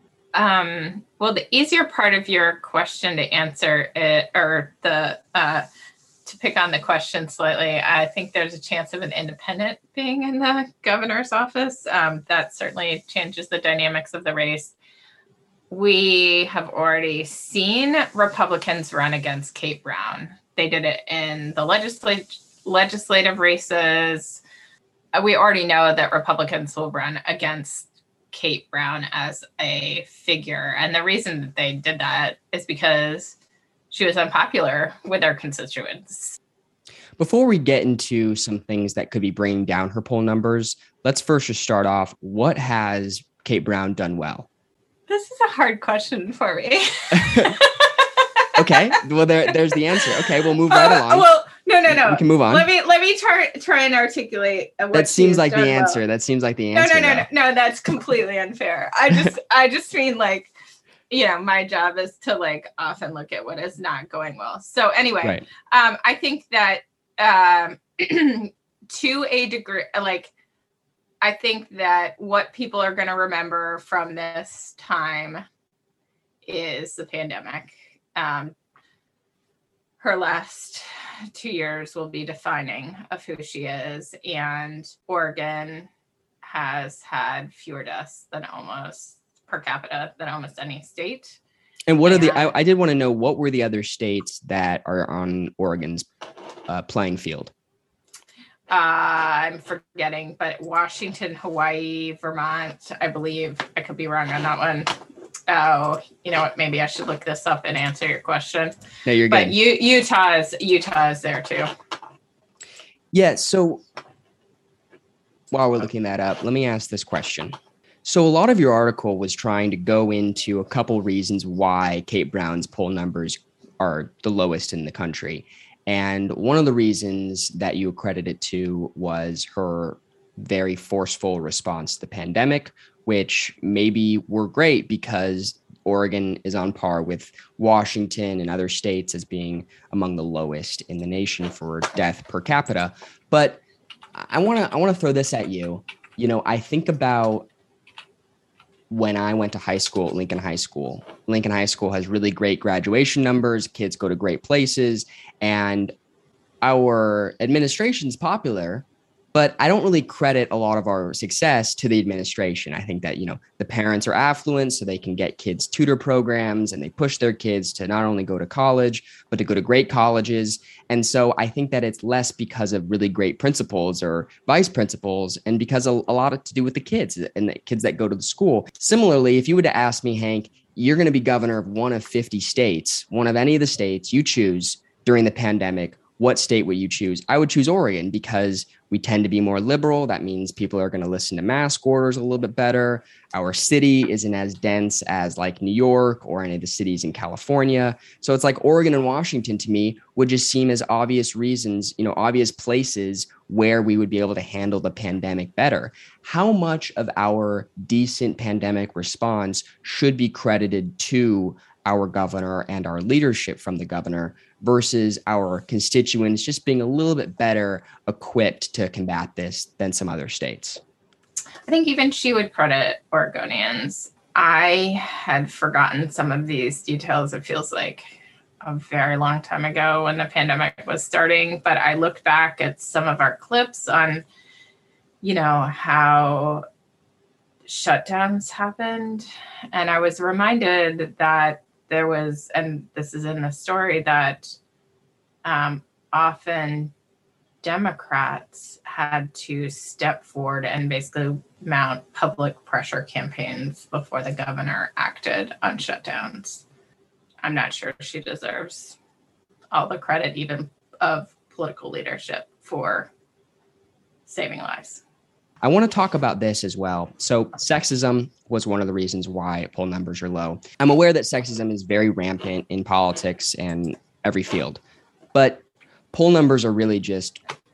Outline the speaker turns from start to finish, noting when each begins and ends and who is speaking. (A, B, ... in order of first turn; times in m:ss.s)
0:00.4-0:05.7 A
0:06.2-0:14.8 A
0:15.7-0:24.4 A
0:25.2-0:33.4 A
0:33.9-0:36.4 A
0:37.2-0:44.5 B
0:45.1-0:48.7 A
0:47.1-0:47.6 B
0:48.6-0:51.3 B
0:50.7-0:56.0 A
0:51.9-0:52.7 B
0:54.9-0:57.3 B
0:56.7-1:00.5 A
1:01.1-1:10.3 A
1:11.2-1:15.4 A
1:16.4-1:18.6 A
1:20.0-1:25.9 A
1:26.4-1:31.4 A
1:31.9-1:36.1 B
1:32.0-1:32.5 A
1:36.7-1:37.5 B
1:38.7-1:45.0 A
1:45.5-1:48.7 A
1:49.1-1:49.6 B
1:49.3-1:51.7 A
1:53.1-1:53.8 B
1:55.5-2:23.6 B
2:24.2-2:27.5 B
2:28.9-2:35.9 B
2:36.6-3:40.8 B
3:41.7-3:48.0 A
3:48.6-3:54.2 A
3:55.2-3:56.6 A
3:57.7-4:04.6 A
4:05.4-4:06.9 A
4:07.6-4:16.6 A
4:17.4-4:19.0 A
4:19.7-4:23.1 A
4:24.3-4:25.0 A
4:25.6-4:34.8 B
4:35.3-4:37.4 B